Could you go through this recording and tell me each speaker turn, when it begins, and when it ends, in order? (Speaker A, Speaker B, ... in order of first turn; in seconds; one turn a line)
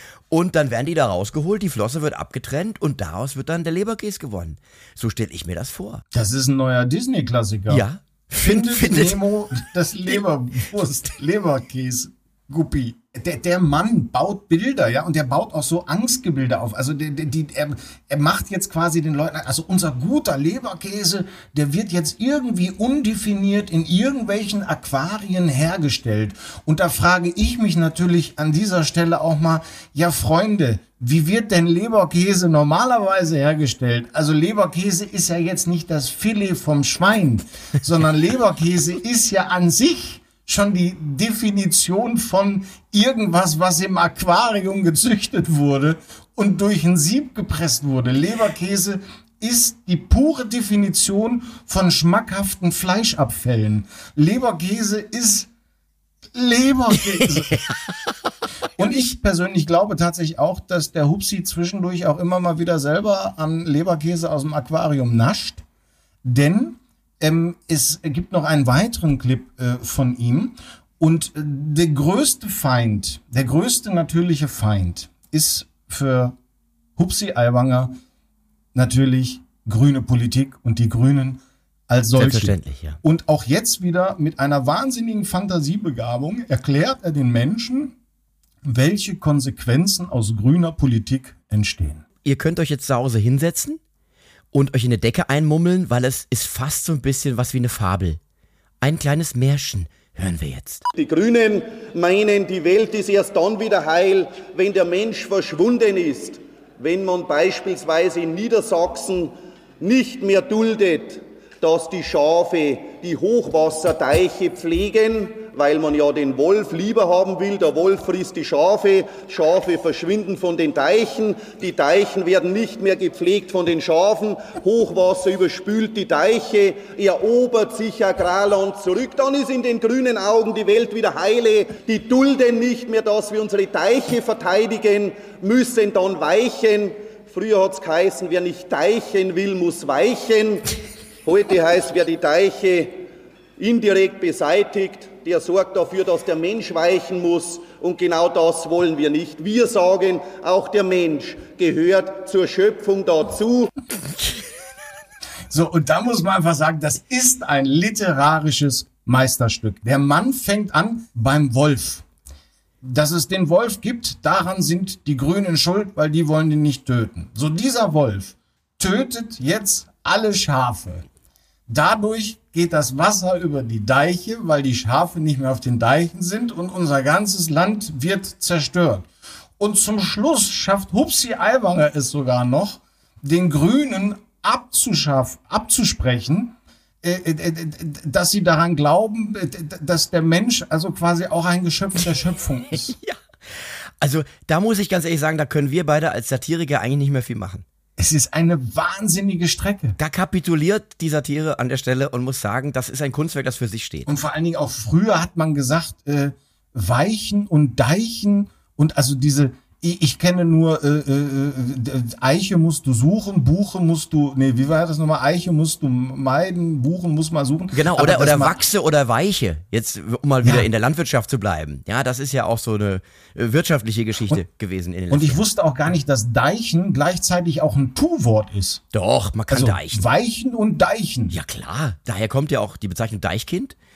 Speaker A: 0.3-6.0
Speaker B: 6.1-55.5
Speaker A: 7.7-9.2
Speaker B: 56.3-57.6
Speaker B: 58.8-65.6
Speaker B: 66.2-76.4
Speaker B: 77.0-78.0
Speaker B: 78.7-87.9
Speaker A: 82.1-83.0
Speaker B: 88.6-92.0
Speaker A: 92.2-93.8
Speaker A: 94.5-98.2
Speaker A: 98.8-100.8
Speaker C: 101.0-140.7
Speaker C: 141.2-143.0
Speaker C: 143.6-153.7
Speaker B: 155.5-162.0
Speaker B: 162.8-171.1
Speaker B: 171.7-179.1
Speaker B: 179.6-192.9
Speaker A: 194.0-197.6
Speaker B: 198.0-199.9
Speaker A: 200.0-204.1
Speaker B: 204.1-218.6
Speaker A: 217.7-225.4
Speaker B: 225.1-228.8
Speaker A: 228.9-230.0
Speaker B: 229.5-231.4
Speaker A: 231.3-233.7